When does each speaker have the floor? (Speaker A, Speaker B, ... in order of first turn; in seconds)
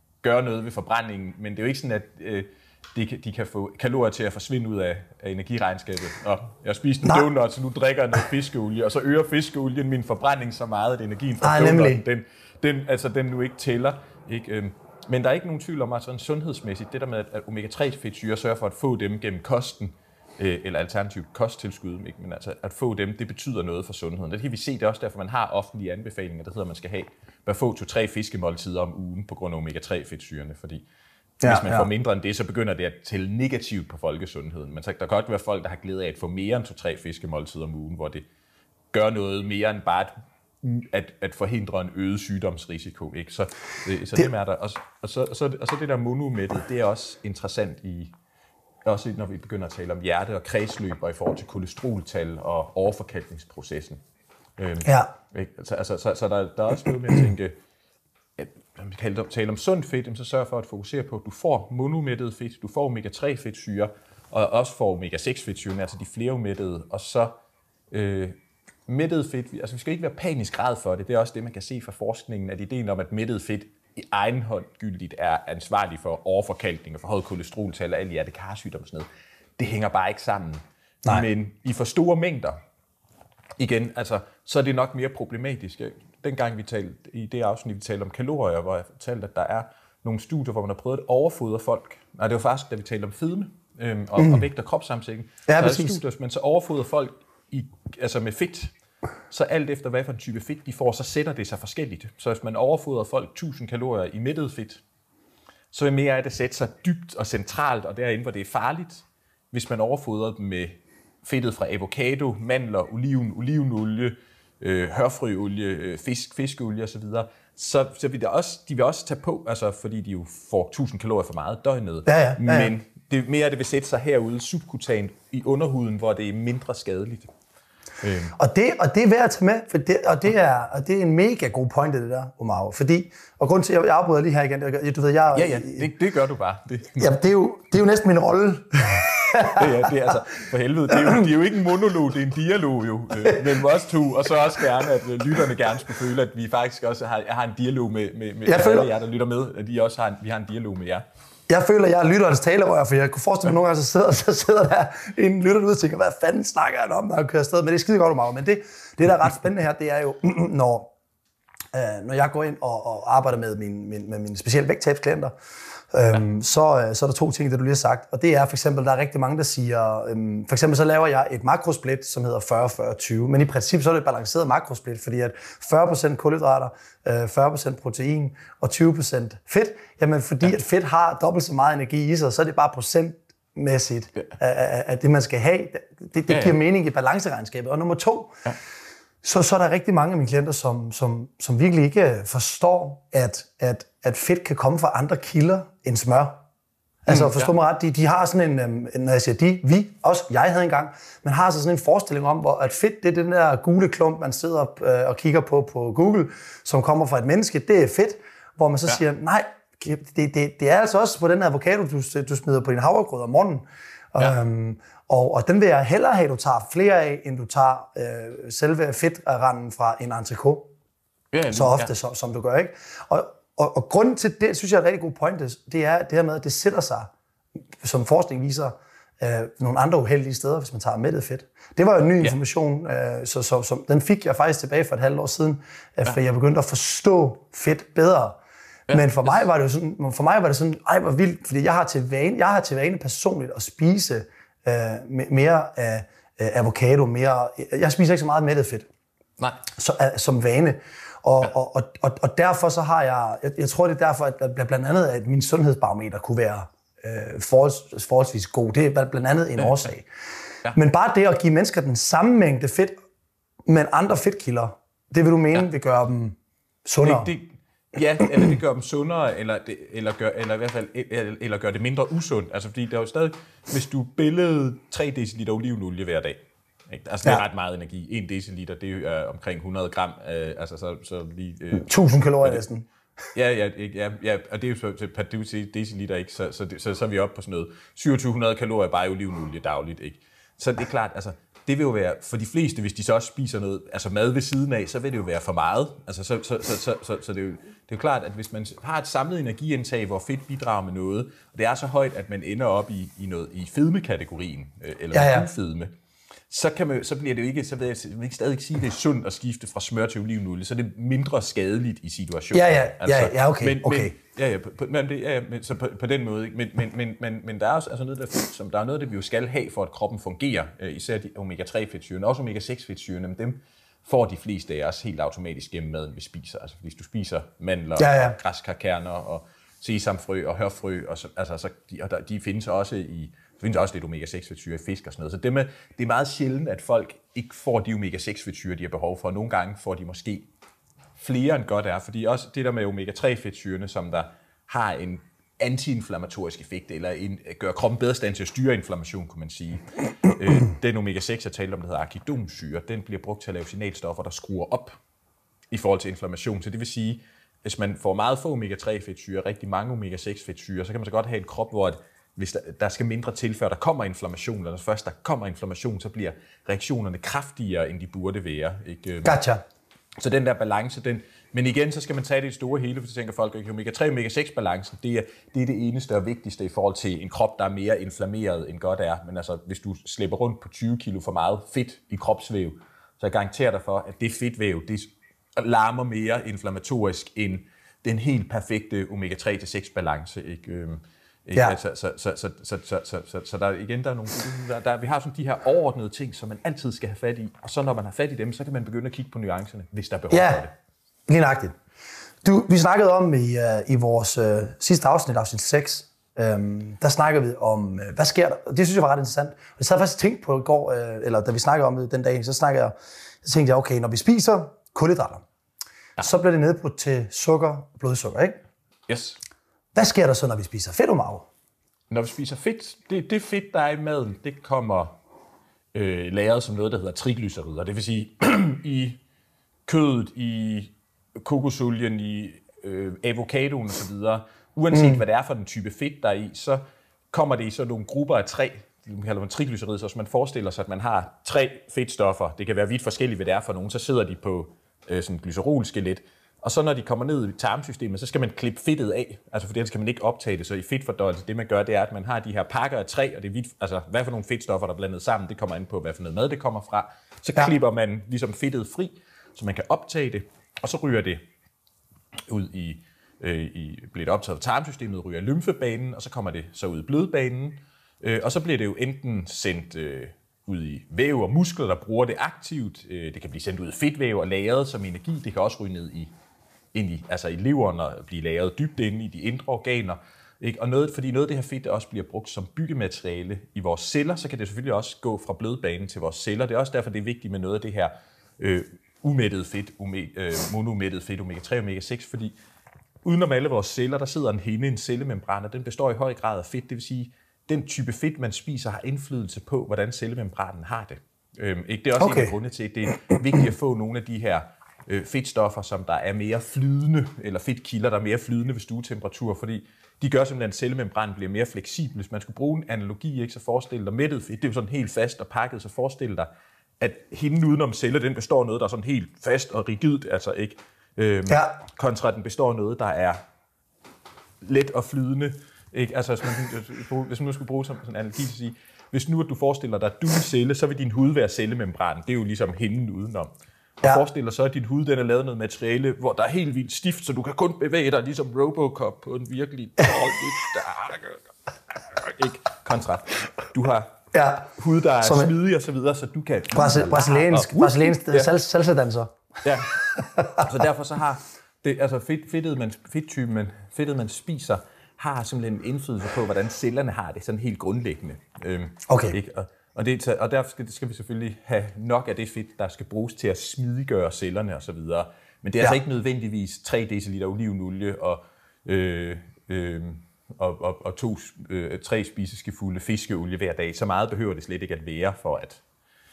Speaker A: 0.2-30.8, 31.4-38.2, 38.9-48.1, 48.9-54.0, 54.6-57.5, 58.4-67.3, 67.9-68.4, 68.9-82.6, 83.6-98.7, 99.3-104.8, 105.7-127.3, 128.0-128.3, 135.3-137.1, 139.5-151.1, 186.3-186.6, 197.1-197.5, 221.3-221.9, 238.9-239.3, 267.0-281.9, 283.3-305.9, 306.5-340.5, 341.2-355.0, 355.7-369.4, 370.2-400.7, 419.1-419.4, 422.1-425.1, 425.9-429.2, 429.9-461.4, 462.5-476.3, 476.9-492.5, 493.2-516.5, 517.0-523.4, 524.6-544.2, 544.8-548.5, 549.6-575.8
Speaker B: 11.4-12.0, 31.4-31.9, 54.8-55.1, 94.2-94.4, 95.5-96.0, 122.1-122.7, 128.3-135.9, 137.0-139.9, 140.9-141.2, 148.5-148.9, 151.5-160.9, 161.7-165.3, 165.9-188.4, 189.2-196.4, 197.1-220.7, 221.5-227.1, 227.8-238.4, 238.9-248.9, 249.7-260.1, 260.7-262.9, 263.7-267.3, 281.8-282.9, 305.1-305.5, 312.5-314.1, 328.0-328.4, 369.2-369.6, 400.3-400.6, 401.3-401.7, 402.4-415.4, 416.2-418.6, 419.9-421.5, 434.9-435.2, 502.2-502.5, 544.3-544.7, 545.2-545.5, 546.7-549.3, 550.2-550.6, 559.1-559.4